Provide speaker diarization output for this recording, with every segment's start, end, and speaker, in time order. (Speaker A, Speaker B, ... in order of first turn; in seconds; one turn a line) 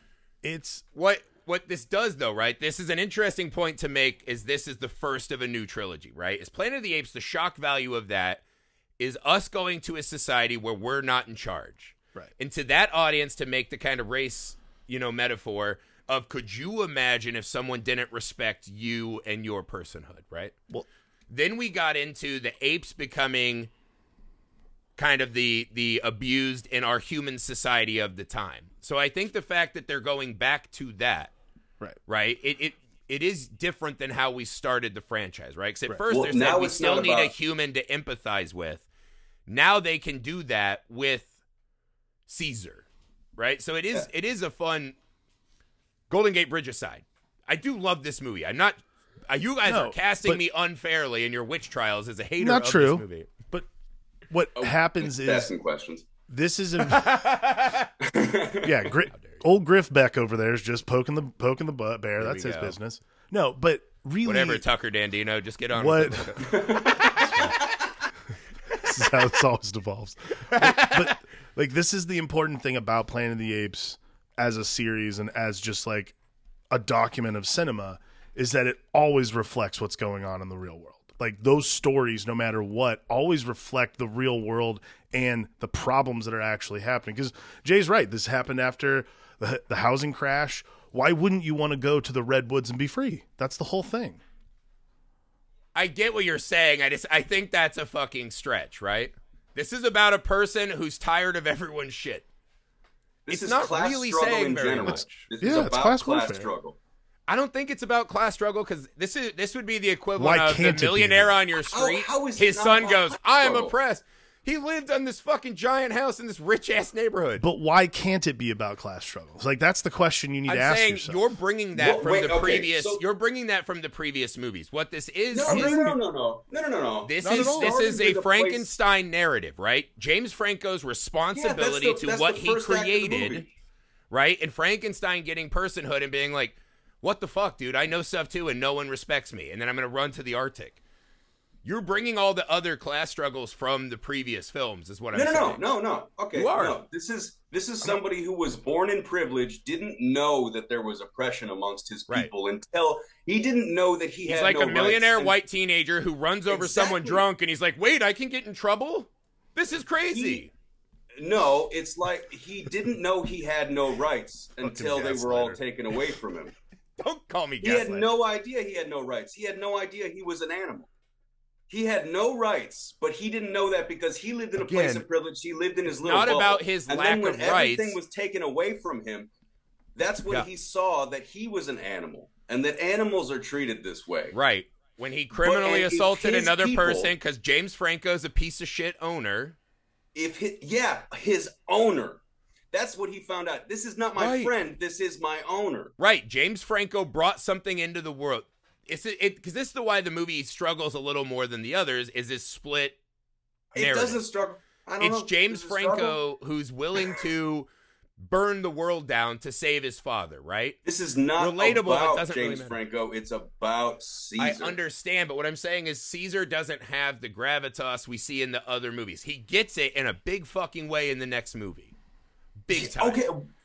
Speaker A: 0.4-0.8
Speaker B: 0.9-8.4
Speaker B: 9.0-20.6
Speaker B: 21.3-23.7
Speaker B: 25.0-31.3
Speaker B: 32.1-38.9
Speaker C: 36.1-37.3
Speaker B: 39.5-41.3
Speaker B: 42.3-42.9
Speaker B: 43.4-45.0
Speaker B: 46.1-53.3
Speaker A: 49.6-50.4
Speaker A: 52.4-53.7
Speaker A: 54.3-55.5
Speaker C: 54.6-56.1
Speaker A: 56.3-57.1
Speaker B: 56.9-57.9
Speaker C: 58.0-58.8
Speaker A: 58.6-64.6
Speaker B: 59.1-59.4
Speaker B: 62.2-62.8
Speaker B: 64.2-67.5
Speaker A: 65.7-66.5
Speaker C: 66.4-67.7
Speaker A: 67.2-67.5
Speaker B: 68.7-69.0
Speaker A: 68.8-76.2
Speaker B: 70.5-71.2
Speaker A: 76.7-94.2
Speaker B: 95.8-102.3
Speaker C: 103.3-106.8
Speaker B: 103.3-105.3
Speaker A: 104.8-106.5
Speaker B: 107.3-117.5
Speaker A: 110.2-111.4
Speaker C: 111.7-113.7
Speaker A: 117.4-121.2
Speaker B: 120.5-125.9
Speaker C: 121.8-123.0
Speaker C: 125.3-128.7
Speaker A: 125.5-126.0
Speaker B: 127.0-133.5
Speaker A: 127.2-127.8
Speaker C: 131.3-133.5
Speaker B: 134.1-140.8
Speaker B: 141.7-145.6
Speaker C: 145.1-155.4
Speaker B: 146.3-146.8
Speaker B: 154.2-160.5
Speaker C: 156.5-157.2
Speaker C: 160.1-160.4
Speaker C: 161.2-166.6
Speaker A: 164.6-165.6
Speaker B: 167.0-168.1
Speaker C: 167.6-170.9
Speaker C: 171.7-179.3
Speaker B: 174.6-175.0
Speaker B: 176.0-178.0
Speaker C: 180.0-184.3
Speaker B: 184.3-189.6
Speaker C: 185.3-187.1
Speaker C: 190.2-195.9
Speaker B: 194.2-194.5
Speaker B: 196.0-203.0
Speaker C: 203.7-206.2
Speaker B: 203.8-204.2
Speaker B: 205.0-210.8
Speaker C: 210.8-214.8
Speaker B: 211.4-212.8
Speaker B: 214.4-221.9
Speaker B: 222.6-223.2
Speaker C: 222.7-223.5